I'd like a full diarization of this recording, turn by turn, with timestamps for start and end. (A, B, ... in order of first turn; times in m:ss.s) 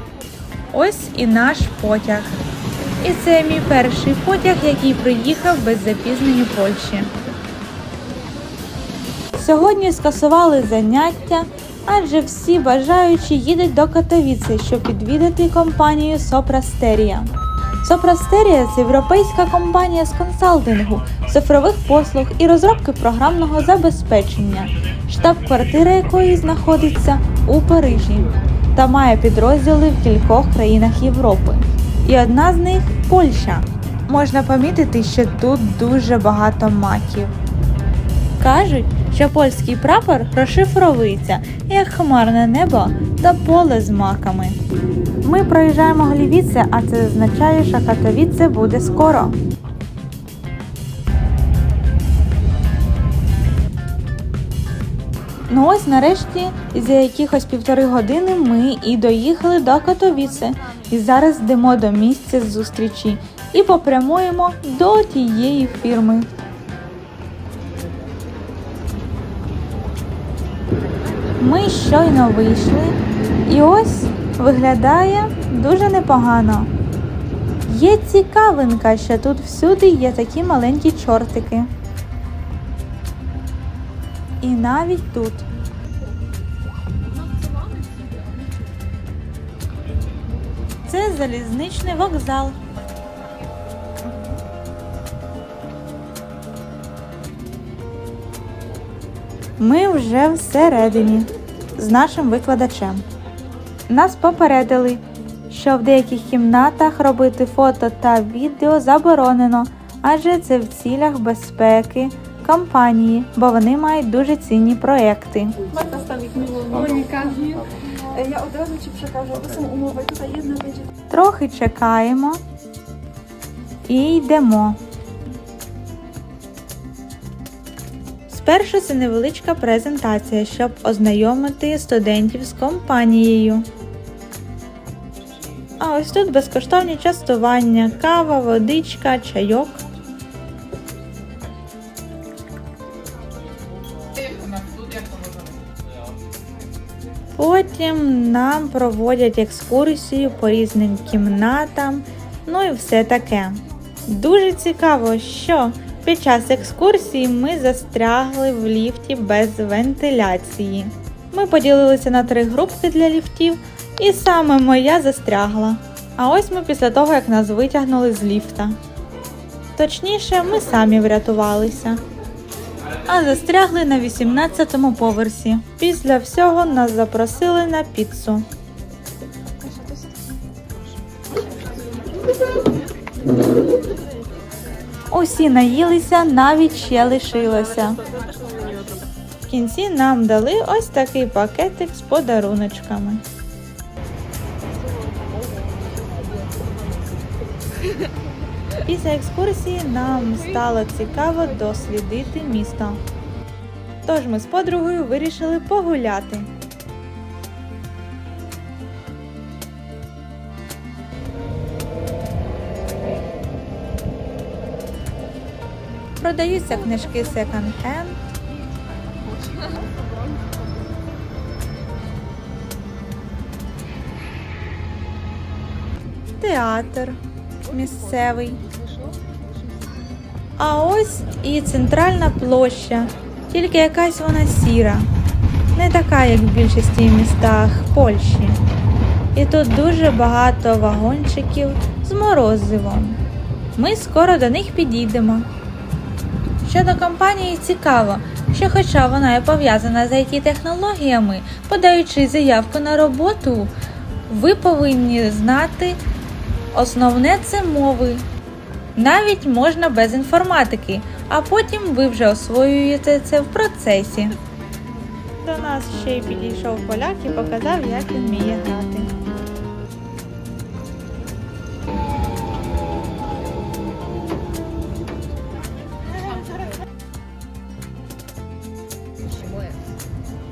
0:00.7-0:02.4 A
0:03.0-0:07.1 A
0:09.4-0:17.3 A
0:17.8-0:37.3 A
0:38.4-0:44.6 A
0:45.2-0:49.4 A
0:55.5-1:06.3 A
1:11.4-1:16.7 A
1:17.7-1:21.7 A
1:24.4-1:25.4 A
1:27.2-1:28.7 B
1:30.9-1:32.6 A
1:39.6-1:43.0 A
1:43.9-1:55.6 A
1:55.6-2:00.9 B
2:01.1-2:02.4 A
2:03.9-2:04.8 A
2:08.3-2:13.7 A
2:15.8-2:19.8 A
2:27.4-2:48.8 A
2:49.8-2:52.0 A
2:53.1-2:58.4 A
2:59.6-3:00.1 B
3:05.1-3:08.0 A
3:09.5-3:13.2 A
3:14.8-3:17.2 B
3:18.8-3:23.0 A
3:24.1-3:26.5 A
3:36.2-3:38.2 A
3:39.5-3:40.6 B
3:46.4-3:48.6 A
3:48.6-3:49.8 B
3:50.6-3:55.1 A
3:55.7-3:58.6 A
3:59.4-4:03.2 A
4:03.8-4:05.5 A
4:06.6-4:13.7 A
4:14.3-4:16.0 A
4:16.7-4:18.2 A
4:19.0-4:24.4 A
4:25.4-4:29.1 A
4:39.5-4:39.7 B